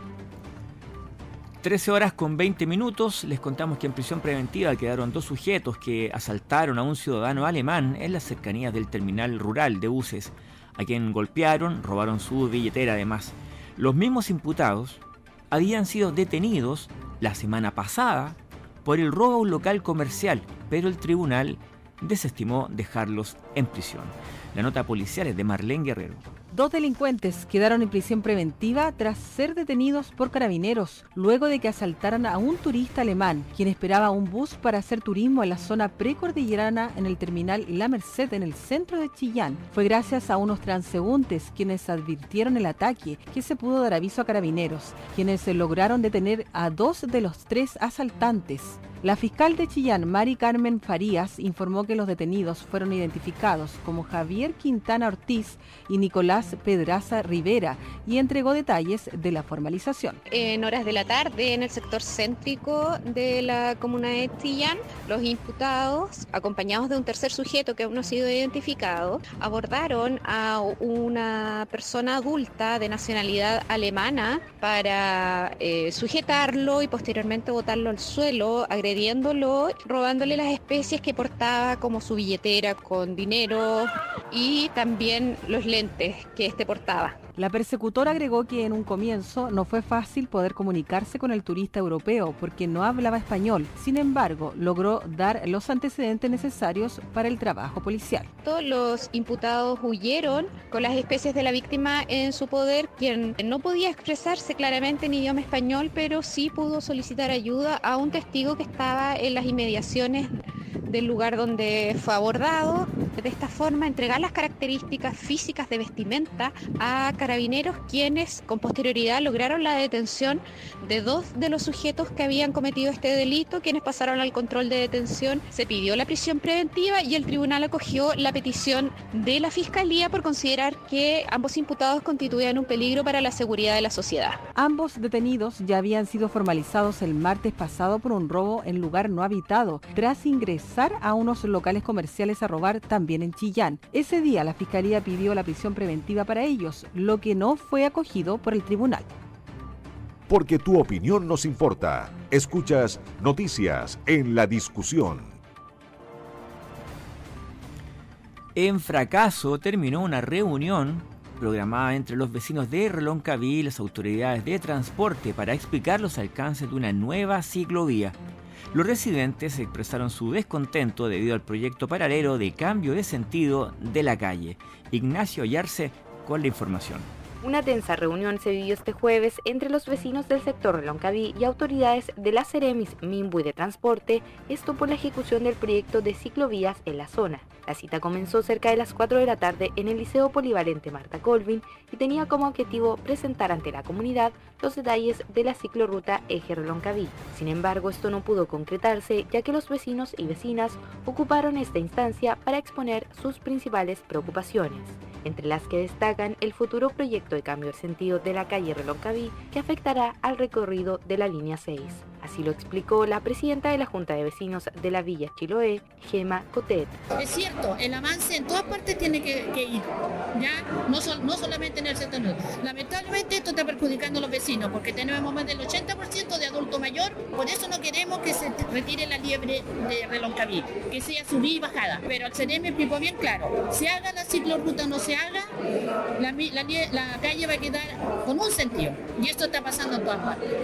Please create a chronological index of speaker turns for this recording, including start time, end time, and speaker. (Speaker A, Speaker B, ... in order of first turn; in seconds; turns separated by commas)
Speaker A: 1.6-26.2, Speaker B: 26.5-60.2, Speaker C: 60.3-87.2, Speaker B: 87.4-98.3, Speaker C: 98.4-134.4, Speaker B: 134.6-149.1, Speaker D: 150.3-155.4, Speaker A: 158.6-168.2, Speaker A: 168.7-177.1, Speaker E: 177.4-217.0, Speaker F: 217.2-235.5, Speaker F: 236.2-240.4